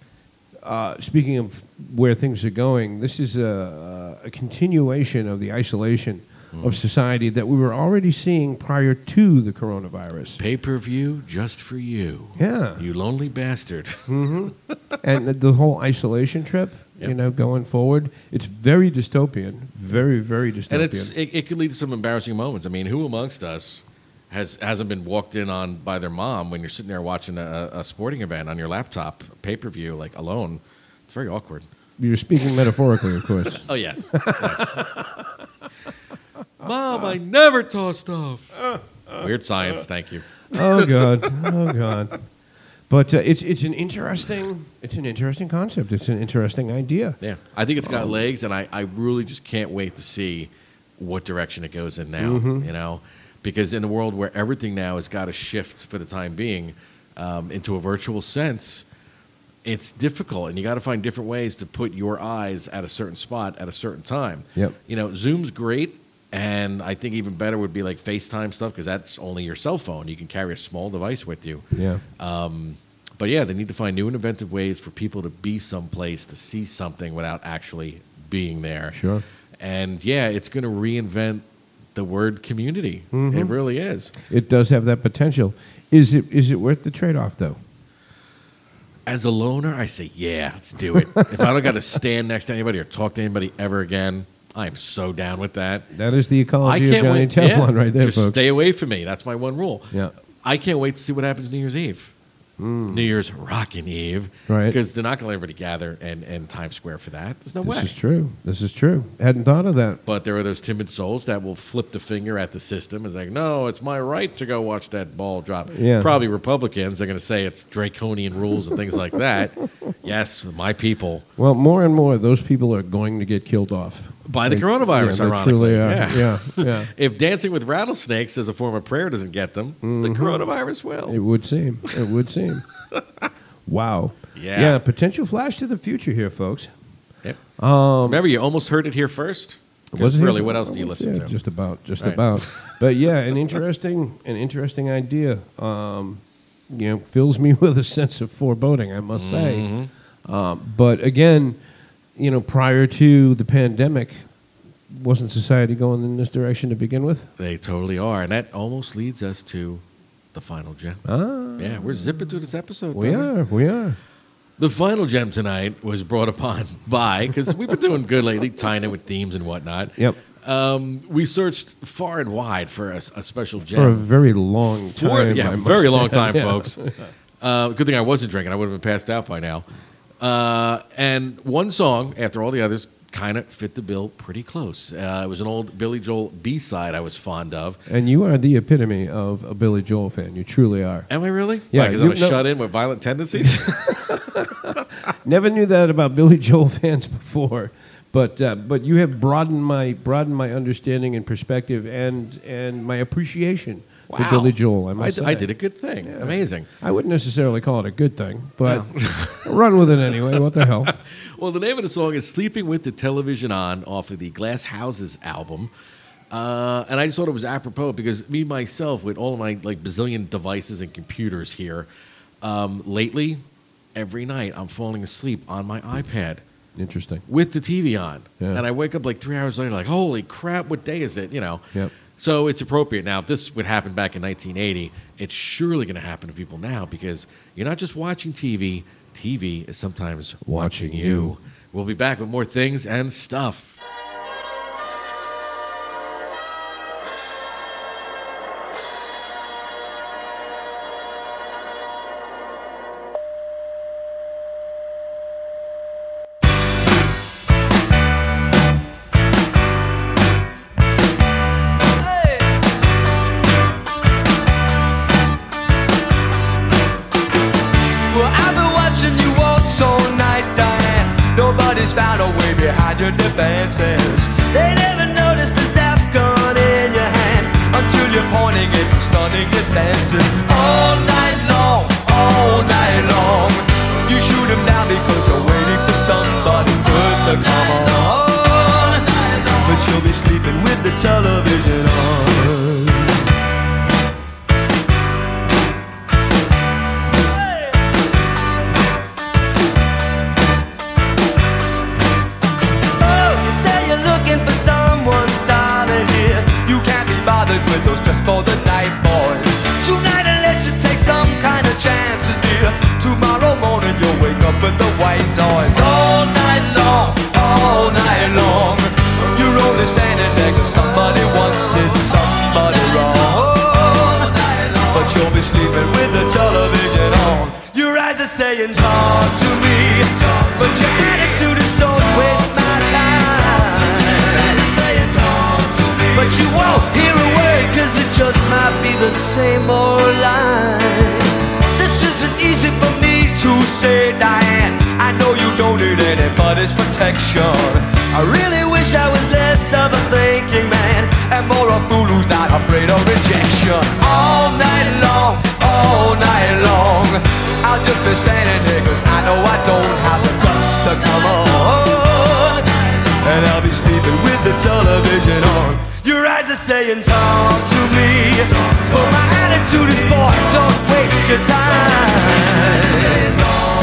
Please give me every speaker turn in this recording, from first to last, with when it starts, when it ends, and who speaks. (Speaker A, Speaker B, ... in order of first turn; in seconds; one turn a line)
Speaker A: 0.6-10.4
Speaker B: 6.5-6.8
Speaker B: 10.4-14.1
Speaker A: 12.4-12.8
Speaker A: 14.1-21.1
Speaker B: 20.7-31.6
Speaker A: 32.0-35.2
Speaker B: 33.6-34.9
Speaker B: 36.6-38.6
Speaker A: 38.6-39.8
Speaker B: 39.1-41.2
Speaker A: 40.5-42.2
Speaker A: 42.9-47.2
Speaker B: 47.2-58.8
Speaker A: 47.8-48.2
Speaker A: 52.2-52.7
Speaker B: 59.6-71.6
Speaker A: 71.7-72.0
Speaker B: 72.2-79.0
Speaker A: 78.9-79.2
Speaker B: 79.6-81.4
Speaker B: 81.9-84.1
Speaker A: 83.1-83.5
Speaker A: 84.1-87.6
Speaker B: 89.0-95.9
Speaker A: 90.9-91.7
Speaker A: 95.9-98.4
Speaker B: 96.6-99.9
Speaker B: 100.4-102.1
Speaker A: 102.6-103.1
Speaker B: 102.9-107.9
Speaker A: 104.5-104.8
Speaker A: 107.6-110.0
Speaker B: 110.0-121.2
Speaker A: 115.7-116.2
Speaker A: 121.4-126.9
Speaker B: 124.2-131.2
Speaker A: 129.8-130.4
Speaker A: 131.0-132.6
Speaker A: 133.7-136.7
Speaker B: 134.3-134.8
Speaker A: 137.6-138.2
Speaker B: 138.0-141.3
Speaker A: 139.9-149.7
Speaker B: 142.0-142.7
Speaker B: 149.1-149.9
Speaker A: 150.2-151.6
Speaker A: 152.2-154.2
Speaker A: 154.9-157.3
Speaker B: 157.4-161.0
Speaker A: 161.0-162.2
Speaker B: 161.6-163.3
Speaker A: 162.9-164.0
Speaker B: 164.6-174.1
Speaker A: 173.6-176.9
Speaker B: 174.9-176.8
Speaker B: 177.4-179.7
Speaker B: 180.2-187.8
Speaker A: 187.9-191.1
Speaker B: 191.1-194.5
Speaker A: 191.7-192.4
Speaker A: 193.3-205.5
Speaker B: 204.1-206.7
Speaker A: 206.0-210.9
Speaker B: 208.6-209.5
Speaker B: 210.3-215.7
Speaker B: 216.3-221.9
Speaker B: 222.4-223.4
Speaker B: 223.9-226.4
Speaker A: 226.8-227.2
Speaker B: 227.3-243.8
Speaker A: 240.4-241.3
Speaker C: 268.1-293.1
Speaker C: 303.0-373.6